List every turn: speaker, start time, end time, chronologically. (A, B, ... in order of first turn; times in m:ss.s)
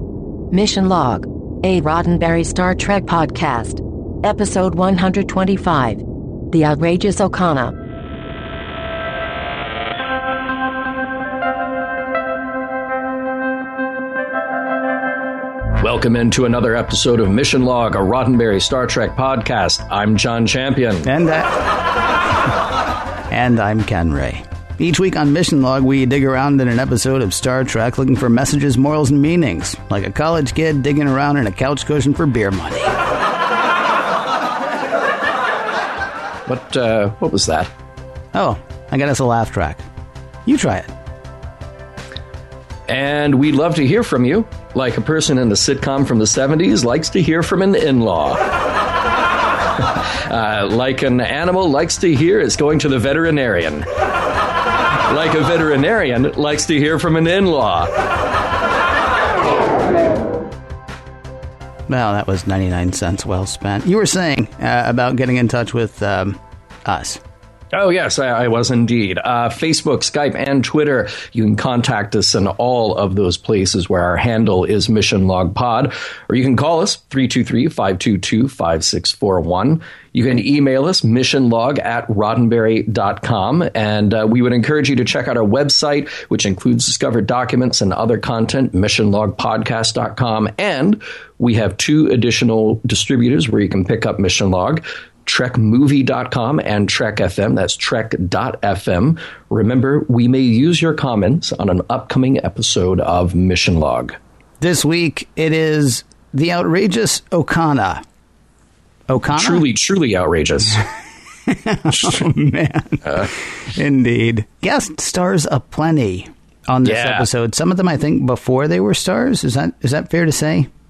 0:00.5-0:07.7 A
0:15.8-0:21.1 B
0:21.0-0:21.7 C
0:23.3-0:33.0 C
0:36.4-0:37.7 B
0:38.3-0:39.8 C
0:40.4-0:40.9 C
0:42.9-0:48.4 B
0:49.8-0:53.9 B
0:55.0-0:57.9 B
1:01.9-1:07.2 C
1:07.7-1:44.2 B
1:44.6-1:48.0 C
1:49.1-1:49.6 C
1:49.3-1:50.8 B
1:51.4-2:00.7 C
1:56.8-1:57.3 B